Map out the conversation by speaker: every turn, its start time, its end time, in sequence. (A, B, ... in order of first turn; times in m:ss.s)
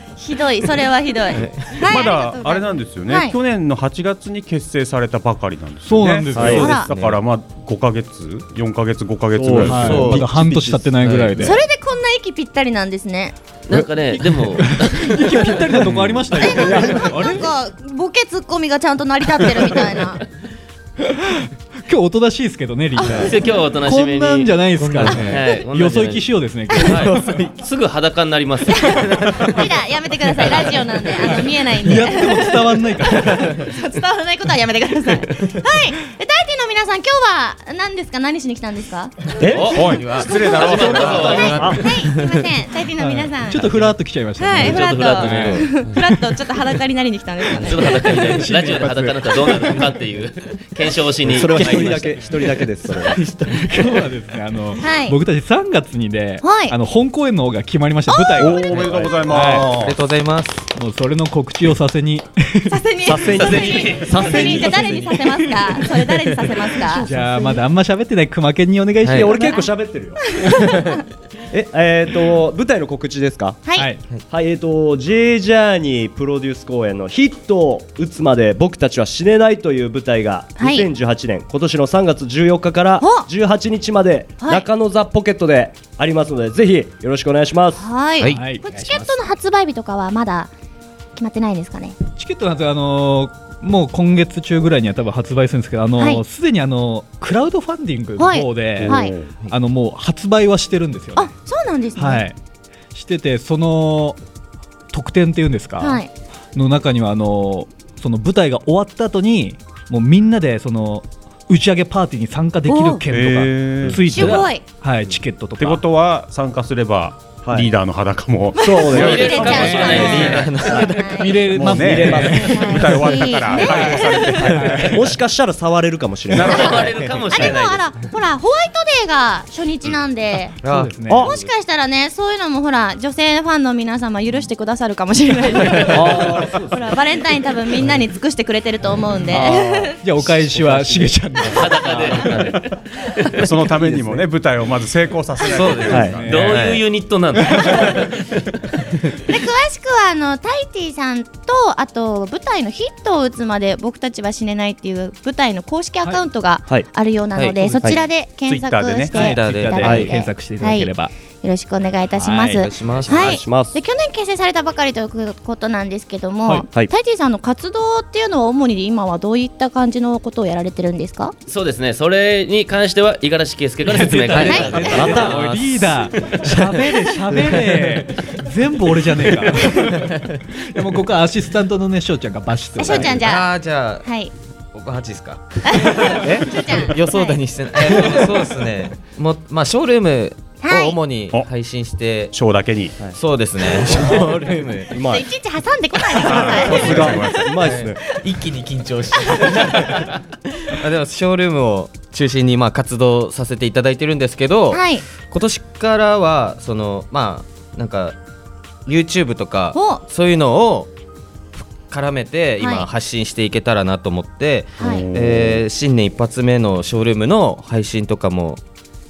0:00.2-0:03.4 A
0:01.9-0:10.1 B
0:05.8-0:06.8 C
0:06.3-0:06.8 D
0:06.6-0:06.9 A
0:06.9-0:07.2 E
0:09.3-0:11.5 D
0:09.5-0:10.3 E
0:09.6-0:11.6 C
0:11.0-0:11.5 E
0:11.4-0:13.4 A
0:13.7-0:15.7 F
0:13.7-0:17.5 C
0:16.4-0:20.2 A
0:16.5-0:17.1 D
0:21.9-0:27.5 C
0:23.1-0:29.5 F
0:24.8-0:25.4 E
0:28.9-0:39.3 A
0:31.8-0:33.7 C
0:39.4-0:40.0 D
0:39.5-0:41.8 F
0:39.7-0:41.9 B
0:40.3-0:43.8 A
0:41.5-0:41.8 D
0:42.0-0:42.4 E
0:43.0-0:46.2 C
0:44.4-0:48.1 A
0:44.6-0:45.8 F
0:45.1-0:45.9 E
0:47.6-0:52.3 F
0:47.9-0:49.9 C
0:51.2-0:53.2 D
0:51.5-0:52.0 C
0:53.1-0:59.7 C
0:54.8-0:55.2 A
0:56.4-0:56.8 A
0:58.1-0:58.9 A
0:58.4-1:00.0 B
0:59.8-1:00.7 E
1:00.8-1:02.8 C
1:02.7-1:07.1 A
1:03.0-1:05.2 D
1:03.4-1:04.1 F
1:04.1-1:05.7 C
1:07.0-1:09.7 C
1:09.0-1:09.4 E
1:09.0-1:10.2 D
1:11.5-1:13.6 D
1:13.6-1:14.0 A
1:13.8-1:14.0 C
1:14.3-1:27.9 D
1:20.6-1:20.9 A
1:23.0-1:23.3 A
1:24.4-1:24.7 A
1:27.8-1:30.5 A
1:28.2-1:28.5 E
1:28.3-1:28.9 C
1:31.2-1:32.0 A
1:32.2-1:41.3 C
1:36.0-1:36.2 A
1:38.2-1:39.1 A
1:38.8-1:39.3 B
1:41.2-1:42.2 A
1:42.0-1:42.4 C
1:42.9-1:44.2 C
1:44.9-1:46.0 C
1:45.8-1:46.1 A
1:46.6-1:55.8 C
1:52.7-1:53.0 A
1:53.1-1:54.5 B
1:54.1-1:54.6 A
1:55.6-2:00.3 B
1:57.4-1:57.7 D
1:58.6-2:01.5 A
1:58.7-2:00.9 D
1:58.9-2:00.5 F
1:59.5-2:00.4 C
1:59.6-2:01.2 E
2:01.1-2:02.6 C
2:01.4-2:05.0 B
2:01.9-2:02.8 D
2:02.4-2:04.6 A
2:04.4-2:05.0 C
2:04.9-2:07.0 D
2:06.3-2:07.9 F
2:06.3-2:06.7 B
2:06.4-2:10.6 A
2:10.6-2:11.5 E
2:10.6-2:11.3 C
2:11.1-2:11.4 D
2:11.2-2:20.0 A
2:15.9-2:16.7 C
2:15.9-2:16.6 D
2:19.3-2:22.6 C
2:21.4-2:23.1 F
2:23.3-2:26.7 B
2:23.8-2:24.2 C
2:25.5-2:26.8 E
2:25.6-2:26.6 C
2:25.8-2:26.2 D
2:26.2-2:28.1 F
2:29.3-2:51.3 A
2:37.4-2:38.0 E
2:37.6-2:38.0 C
2:38.4-2:39.1 B
2:39.1-2:41.1 C
2:39.1-2:40.1 E
2:39.8-2:40.1 D
2:42.2-2:42.6 C
2:42.4-2:43.5 E
2:43.1-2:43.8 D
2:51.5-2:55.4 F
2:53.8-3:03.2 C
2:54.2-2:58.0 E
2:54.4-2:54.9 A
2:54.7-2:55.4 D
2:59.6-3:00.4 E
3:02.8-3:04.3 A
3:02.8-3:04.1 E
3:04.7-3:05.6 E
3:05.7-3:08.2 A
3:06.2-3:06.6 D
3:06.2-3:12.4 E
3:10.6-3:11.0 A
3:12.3-3:13.0 B
3:13.0-3:15.3 D
3:13.1-3:14.9 E
3:15.1-3:17.5 A
3:16.2-3:17.5 B
3:16.4-3:18.0 D
3:17.6-3:20.0 E
3:20.7-3:28.2 E
3:24.7-3:25.0 A
3:28.9-3:30.9 E
3:29.7-3:30.0 A
3:31.6-3:38.6 E
3:32.6-3:32.9 A
3:34.8-3:35.1 A
3:34.8-3:35.6 B